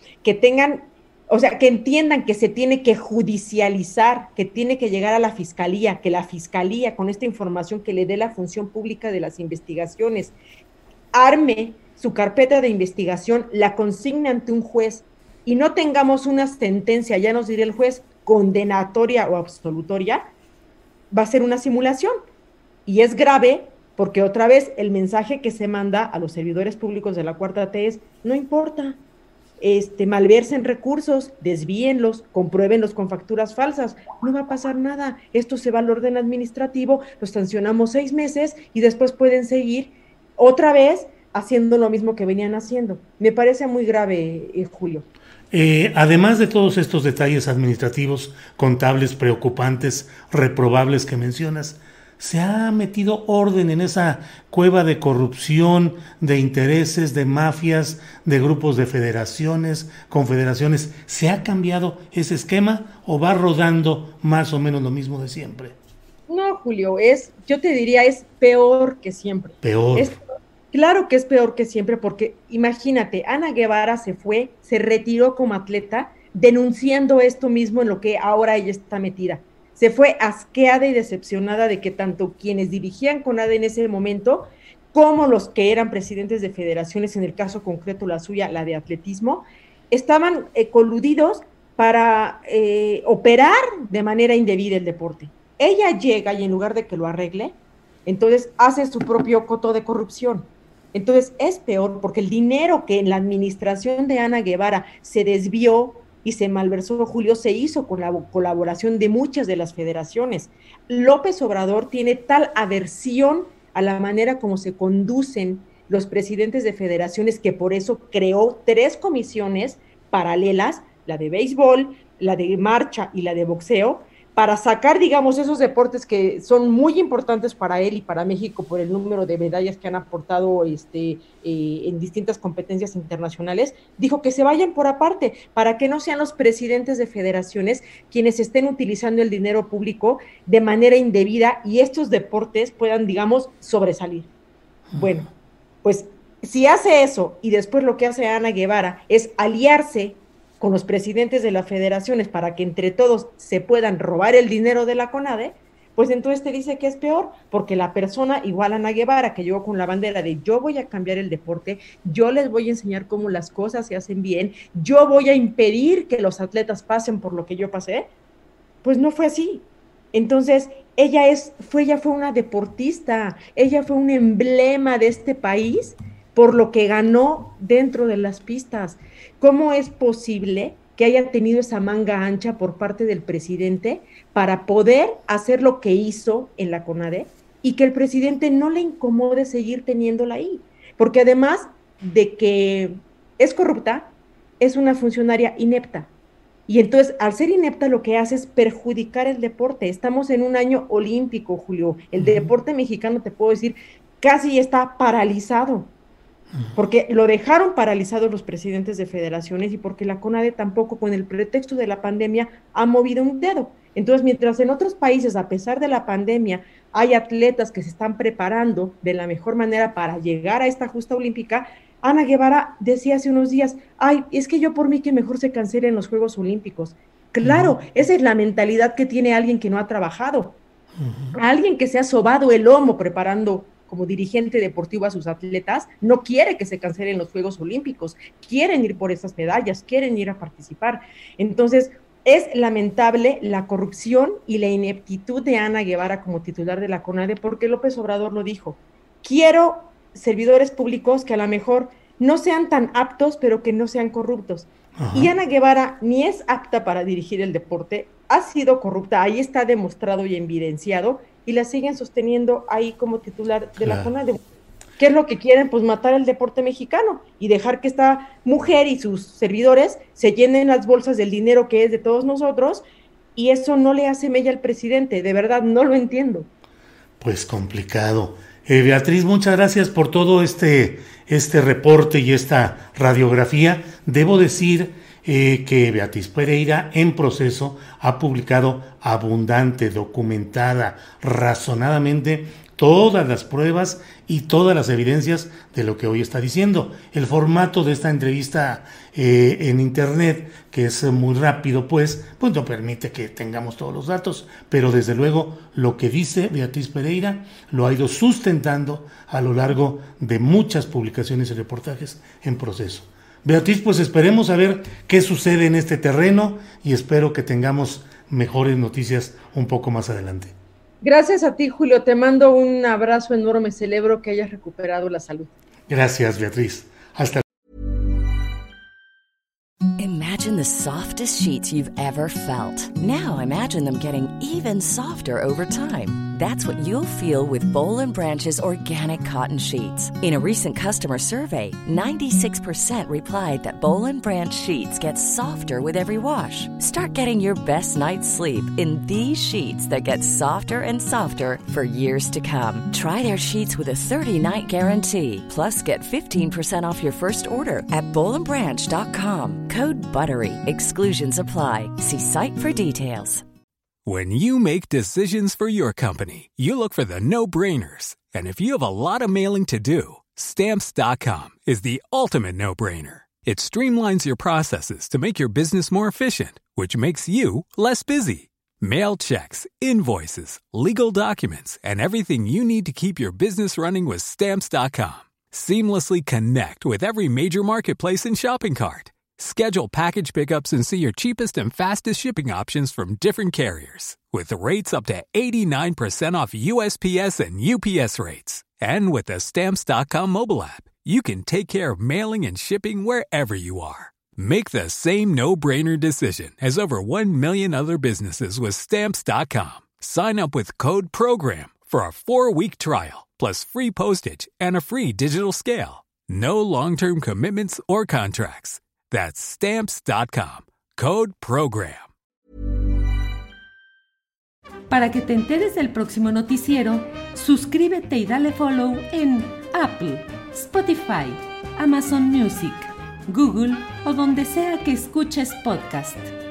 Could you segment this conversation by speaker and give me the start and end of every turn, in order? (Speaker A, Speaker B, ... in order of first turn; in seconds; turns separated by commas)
Speaker A: 0.2-10.3, Speaker A: 11.1-20.2, Speaker A: 21.1-22.1, Speaker A: 22.9-29.0, Speaker A: 29.6-45.1, Speaker B: 45.5-65.8, Speaker A: 66.3-144.3, Speaker B: 69.6-70.1, Speaker A: 145.0-145.3, Speaker A: 145.8-168.1, Speaker A: 168.8-196.1, Speaker A: 196.7-205.9, Speaker B: 202.2-202.5, Speaker A: 206.8-230.6, Speaker B: 227.4-227.8, Speaker B: 231.0-231.3, Speaker A: 231.3-264.4, Speaker B: 255.0-255.3, Speaker B: 263.8-264.1, Speaker A: 265.0-272.8, Speaker A: 273.4-276.5, Speaker B: 277.2-320.6, Speaker A: 321.0-325.5, Speaker B: 325.9-327.4, Speaker C: 330.0-363.4, Speaker D: 364.1-422.1, Speaker E: 424.9-436.3